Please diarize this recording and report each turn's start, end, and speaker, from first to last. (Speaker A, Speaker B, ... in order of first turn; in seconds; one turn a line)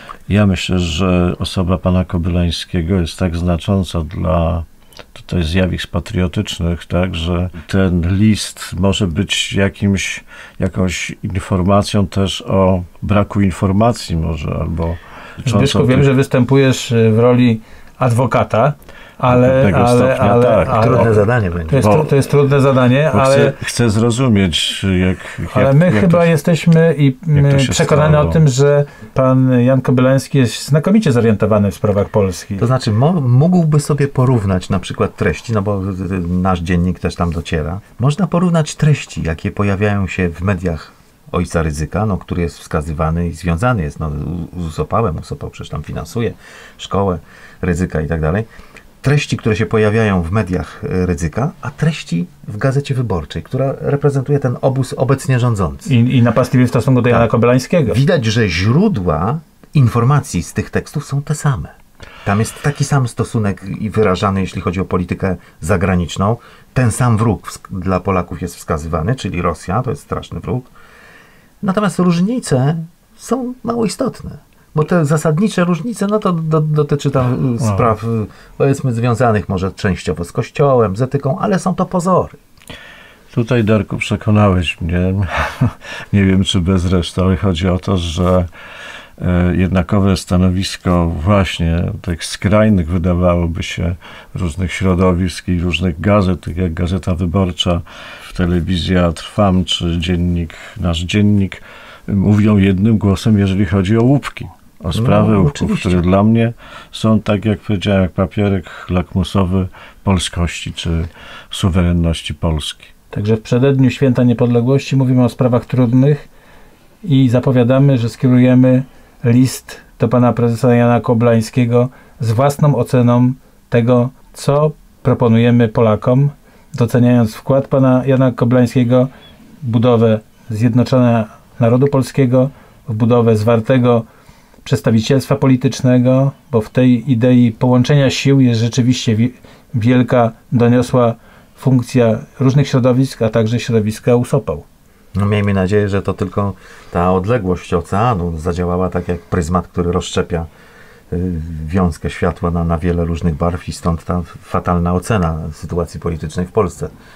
Speaker A: 0.3-16.1
Speaker B: 15.4-23.6
Speaker A: 19.3-21.2
Speaker C: 20.7-21.8
Speaker A: 21.7-22.1
Speaker A: 23.1-26.3
Speaker B: 25.5-32.7
Speaker A: 27.3-28.4
Speaker C: 32.6-48.5
Speaker C: 49.0-55.9
Speaker B: 55.9-58.0
Speaker C: 57.9-61.7
Speaker C: 62.2-70.7
Speaker C: 71.6-82.4
Speaker A: 77.6-77.9
Speaker A: 83.3-88.5
Speaker A: 89.2-112.9
Speaker C: 104.9-106.0
Speaker B: 113.1-116.3
Speaker B: 117.0-129.1
Speaker B: 129.6-134.0
Speaker B: 134.6-144.6
Speaker C: 145.1-150.5
Speaker C: 151.1-156.9